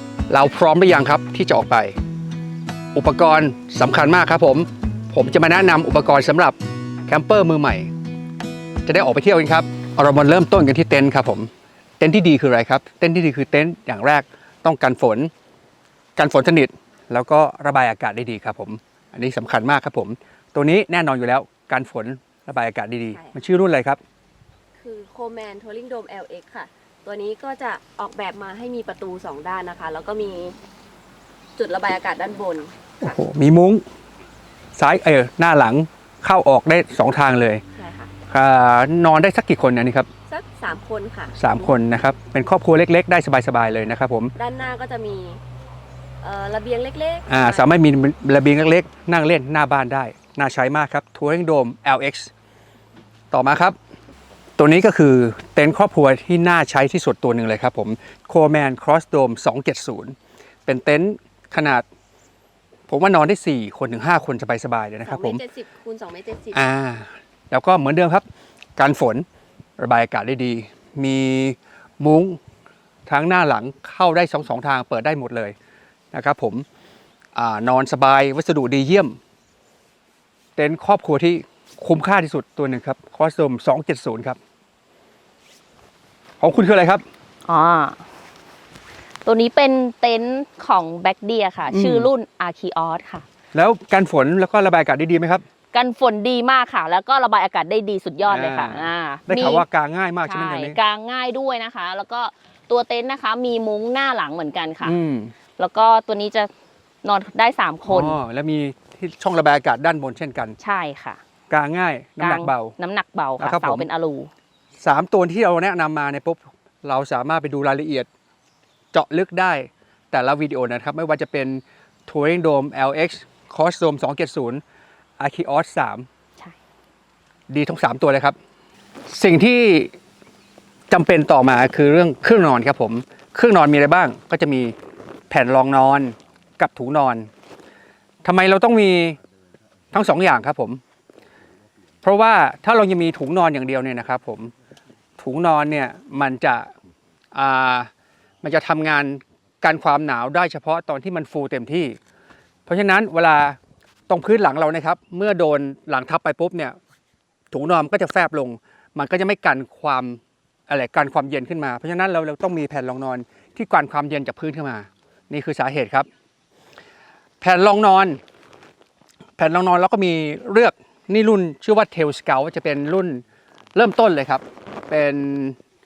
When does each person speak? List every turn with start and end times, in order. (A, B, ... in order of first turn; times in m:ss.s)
0:00.3-0:02.0 A
0:02.9-0:06.6 A
0:07.1-0:07.9 A
0:08.8-0:15.3 A
0:16.2-0:24.0 A
0:23.1-0:23.4 B
0:24.8-0:30.6 B
0:31.6-0:32.7 B
0:33.0-0:33.8 A
0:34.8-0:37.6 A
0:37.8-0:38.1 B
0:38.3-0:40.1 A
0:40.3-0:41.4 B
0:41.4-0:44.3 A
0:44.3-0:45.4 B
0:46.2-0:47.7 B
0:47.3-0:52.3 A
0:53.3-0:53.8 A
0:54.6-1:01.8 A
1:02.9-1:05.4 A
1:05.0-1:06.6 B
1:06.5-1:08.2 A
1:08.8-1:09.2 A
1:09.8-1:12.4 A
1:13.0-1:15.5 A
1:16.1-1:16.6 A
1:17.3-1:19.2 A
1:20.6-1:24.4 A
1:26.4-1:27.0 A
1:27.4-1:28.0 C
1:29.2-1:33.2 C
1:31.7-1:32.1 A
1:33.5-1:35.4 A
1:35.7-1:39.6 C
1:38.3-1:40.8 A
1:40.2-1:45.0 C
1:44.8-1:45.3 A
1:45.6-1:46.5 C
1:47.0-1:48.2 C
1:47.9-1:50.6 A
1:50.6-1:51.2 C
1:51.5-1:52.7 A
1:52.2-1:54.3 C
1:53.4-1:53.9 A
1:54.8-1:58.1 A
1:58.9-2:04.6 A
2:05.2-2:06.1 A
2:07.5-2:08.4 A
2:09.1-2:09.9 A
2:10.9-2:14.7 A
2:15.3-2:17.3 A
2:18.2-2:19.2 A
2:19.9-2:20.8 A
2:22.0-2:24.5 A
2:25.2-2:26.7 A
2:27.3-2:27.9 A
2:28.4-2:32.0 A
2:32.7-2:33.6 A
2:34.1-2:36.8 A
2:37.5-2:46.1 A
2:47.4-2:48.2 A
2:49.4-2:53.2 A
2:53.7-2:55.6 A